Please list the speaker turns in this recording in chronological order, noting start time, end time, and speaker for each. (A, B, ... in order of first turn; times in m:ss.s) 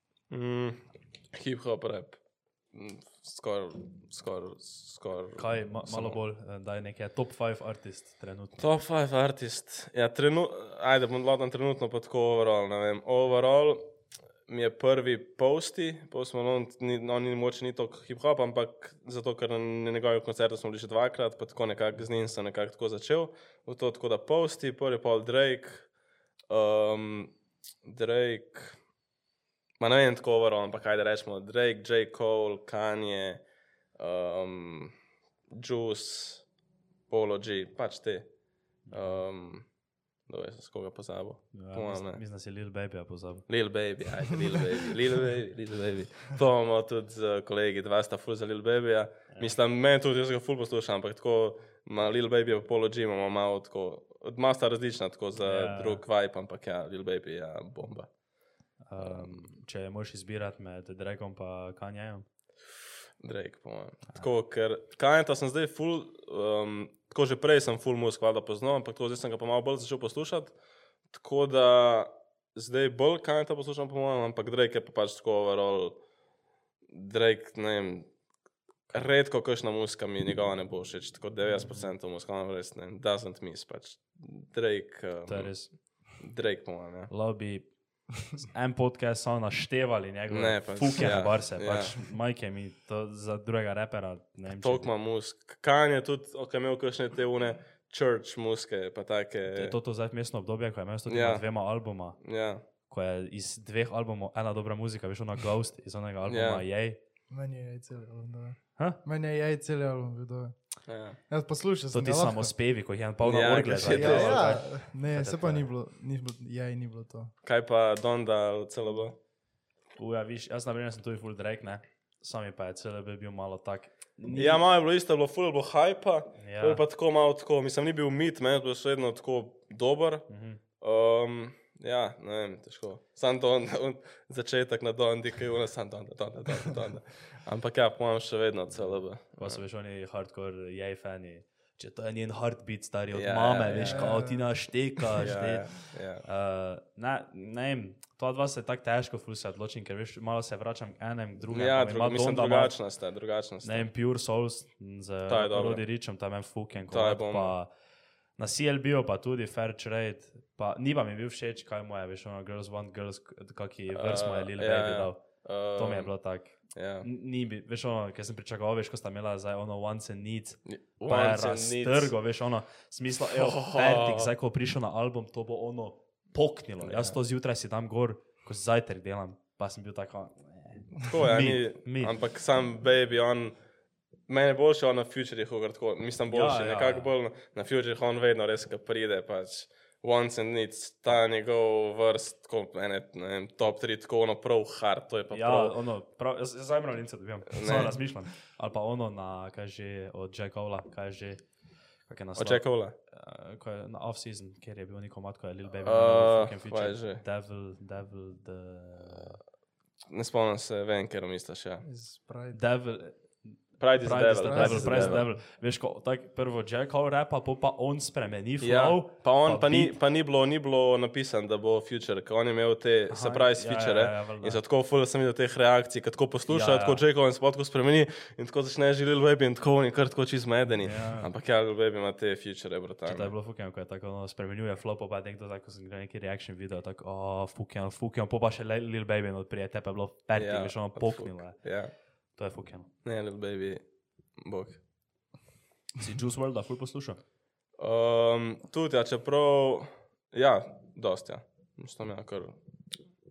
0:00.3-0:06.2 A
0:05.4-0:08.6 B
0:08.6-0:13.9 A
0:14.5-0:25.9 A
0:26.5-0:27.3 A
0:27.8-0:28.8 A
0:29.8-0:33.4 A
0:34.0-0:34.9 A
0:35.5-0:36.5 A
0:37.1-0:38.3 A
0:38.9-0:39.7 A
0:40.3-0:42.2 A
0:41.5-0:43.5 B
0:43.5-0:58.1 A
0:55.4-0:56.0 B
0:58.9-1:02.3 B
0:59.0-0:59.5 A
1:03.2-1:10.6 A
1:11.1-1:16.0 A
1:16.9-1:18.1 A
1:18.9-1:27.1 A
1:25.3-1:25.7 B
1:27.1-1:34.9 B
1:30.3-1:32.0 A
1:34.6-1:39.8 A
1:39.5-1:42.2 B
1:41.1-1:41.4 A
1:42.2-1:42.6 A
1:42.9-1:47.0 B
1:46.3-1:46.6 A
1:47.3-1:50.7 C
1:50.9-1:51.2 A
1:51.3-1:52.5 C
1:51.9-1:55.7 B
1:53.2-1:54.6 A
1:53.8-1:57.3 C
1:57.4-1:59.2 A
2:00.0-2:04.6 B
2:04.3-2:19.6 A
2:06.4-2:06.8 B
2:10.3-2:10.6 B
2:18.7-2:32.9 B
2:23.1-2:24.2 A
2:23.8-2:24.7 C
2:25.2-2:26.2 A
2:31.5-2:33.9 A
2:33.6-2:37.7 B
2:35.3-2:35.8 A
2:36.9-2:37.6 A
2:38.4-3:02.2 B
2:43.9-2:46.1 A
2:46.7-2:47.1 A
2:50.7-2:52.1 A
2:53.3-2:54.3 A
2:56.8-2:57.2 A
3:01.0-3:03.6 A
3:04.3-3:15.8 A
3:06.3-3:07.1 B
3:15.3-3:29.4 B
3:17.5-3:18.0 A
3:22.4-3:23.0 A
3:25.8-3:27.2 A
3:30.1-3:31.8 A
3:31.8-3:32.6 C
3:32.5-3:39.9 B
3:33.8-3:35.3 A
3:34.2-3:35.3 C
3:38.6-3:53.3 A
3:43.1-3:44.6 B
3:46.5-3:47.0 B
3:50.8-3:51.3 B
3:53.0-4:02.9 B
4:00.3-4:01.9 A
4:03.0-4:03.8 A
4:04.4-4:04.8 A
4:06.0-4:07.2 B
4:07.8-4:12.6 A